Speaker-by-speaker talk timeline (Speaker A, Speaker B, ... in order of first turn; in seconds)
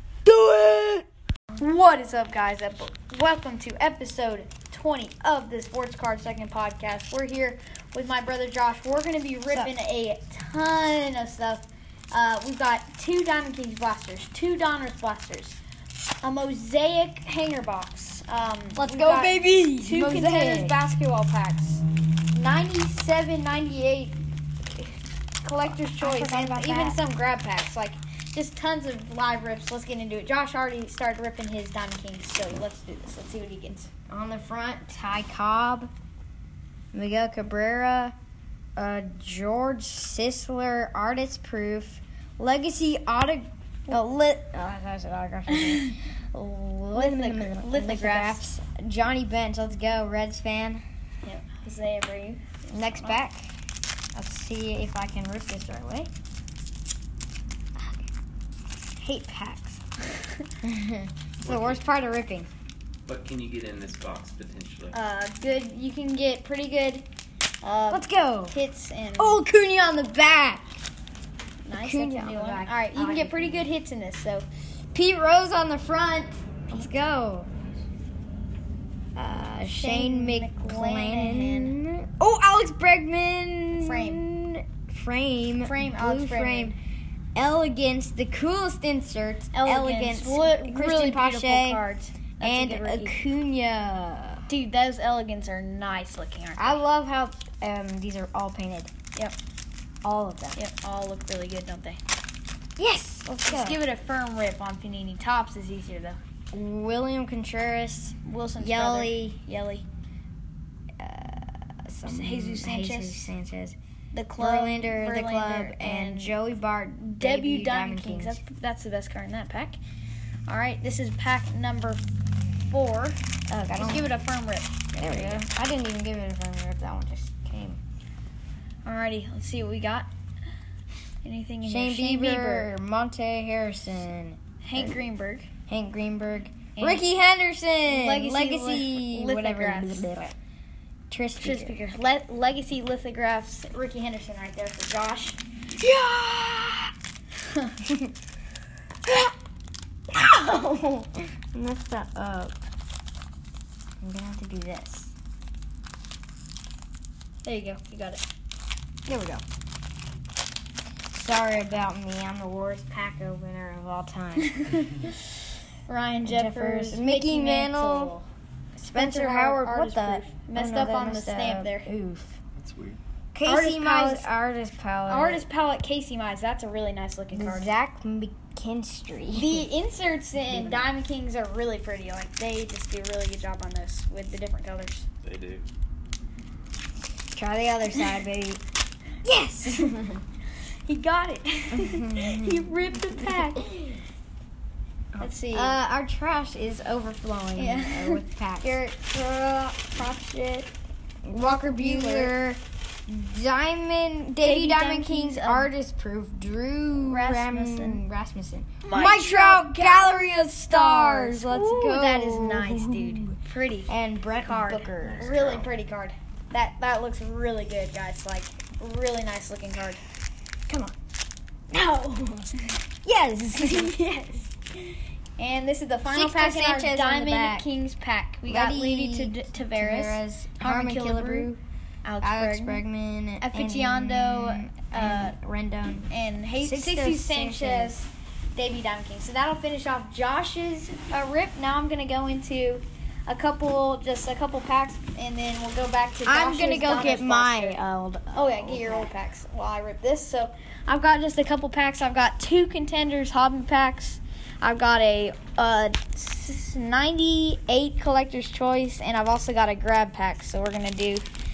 Speaker A: 0.2-1.1, 1.6-15.6, 16.2-24.2, 25.4-33.9, 46.9-48.4, 51.2-53.2, 64.9-67.0, 67.6-69.4, 71.6-74.5, 76.7-77.0, 79.6-81.8, 83.7-84.2, 85.6-86.7, 89.5-93.2, 94.5-96.8, 100.5-102.0, 103.3-106.2, 108.2-109.8, 112.0-113.3, 114.1-116.3, 117.1-119.8, 120.5-122.0, 122.7-123.2, 123.7-125.4, 128.8-130.1, 131.2-132.7, 134.6-135.5, 136.8-137.0, 137.9-140.1, 141.4-145.4, 147.5-147.7, 157.4-158.2, 164.4-165.1, 165.9-168.2, 168.9-171.9, 173.4-174.3, 175.1-177.7, 179.3-185.1, 190.8-193.7, 195.2-195.8, 197.6-198.8, 201.4-202.3, 204.4-205.7, 206.9-208.0, 208.8-213.9, 214.4-220.0, 223.6-224.4, 225.4-231.5, 232.0-232.8, 233.4-235.3, 236.1-247.8, 248.3-261.2
Speaker B: 18.8-20.8, 25.6-27.0, 34.1-35.9, 36.9-38.1, 38.8-50.8, 52.7-53.5, 54.1-56.1, 57.8-58.1, 59.0-59.8, 60.6-62.5, 67.9-68.5, 69.2-70.7, 71.7-73.7, 74.9-77.5, 79.2-86.7, 87.3-91.8, 92.4-94.4, 96.6-98.9, 100.0-100.6, 102.8-103.8, 106.5-109.4, 111.0-113.8, 114.4-118.4, 123.5-124.1, 124.9-127.8, 131.6-135.0, 135.7-140.3, 141.1-141.8, 145.8-146.9, 147.8-148.1, 149.0-149.3, 150.1-152.6, 154.0-155.1, 159.1-159.4, 161.1-164.9, 166.2-168.2, 168.8-172.4, 173.3-175.4, 177.3-179.7, 180.5-180.9, 187.3-188.6, 189.2-190.2, 191.7-193.9, 195.1-200.7, 201.2-213.3, 213.9-215.3, 220.7-220.9, 221.7-222.5, 223.0-224.1, 226.1-227.7, 228.5-231.6, 232.2-236.1, 236.6-237.9, 246.2-249.1
Speaker C: 61.4-61.8, 63.0-65.0, 172.6-173.0, 185.2-185.7, 215.0-215.7